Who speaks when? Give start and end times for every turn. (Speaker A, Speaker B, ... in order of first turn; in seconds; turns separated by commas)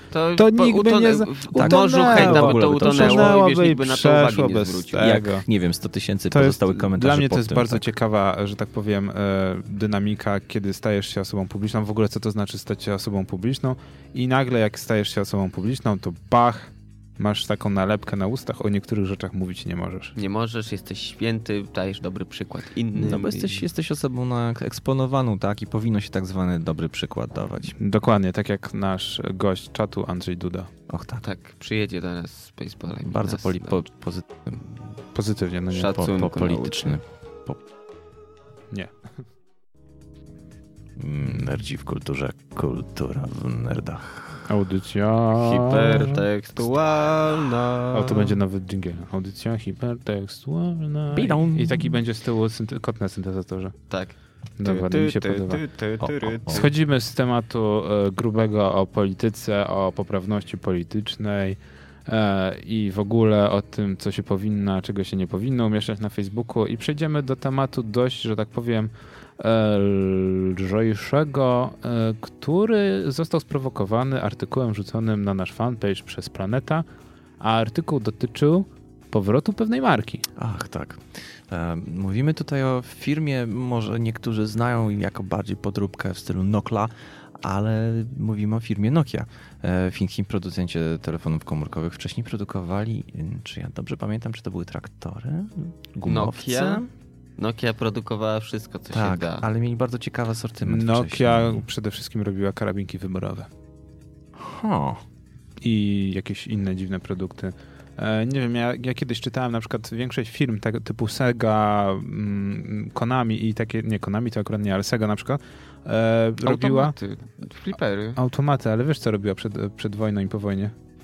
Speaker A: 0.1-5.1, Speaker B: 0.3-5.5, Speaker C: 1.5-3.4, Speaker C: 5.0-7.8, Speaker B: 6.3-20.1, Speaker A: 20.1-23.6, Speaker C: 22.9-27.8, Speaker B: 27.8-30.7, Speaker C: 30.9-31.2, Speaker A: 31.2-33.8, Speaker C: 33.0-34.6, Speaker B: 35.1-36.0, Speaker A: 35.7-37.0, Speaker C: 35.9-37.6, Speaker C: 41.0-44.4, Speaker B: 44.5-46.2, Speaker A: 45.3-48.4, Speaker B: 47.9-53.8, Speaker C: 51.1-52.0, Speaker A: 53.9-56.7, Speaker B: 54.6-55.6, Speaker C: 56.0-56.6, Speaker B: 56.5-76.8, Speaker B: 77.4-80.2, Speaker C: 80.3-96.9, Speaker A: 96.0-96.8, Speaker A: 97.4-99.5, Speaker C: 98.9-101.6, Speaker B: 100.6-103.5, Speaker C: 104.4-105.0, Speaker B: 105.6-116.9, Speaker A: 116.4-118.2, Speaker B: 118.2-120.7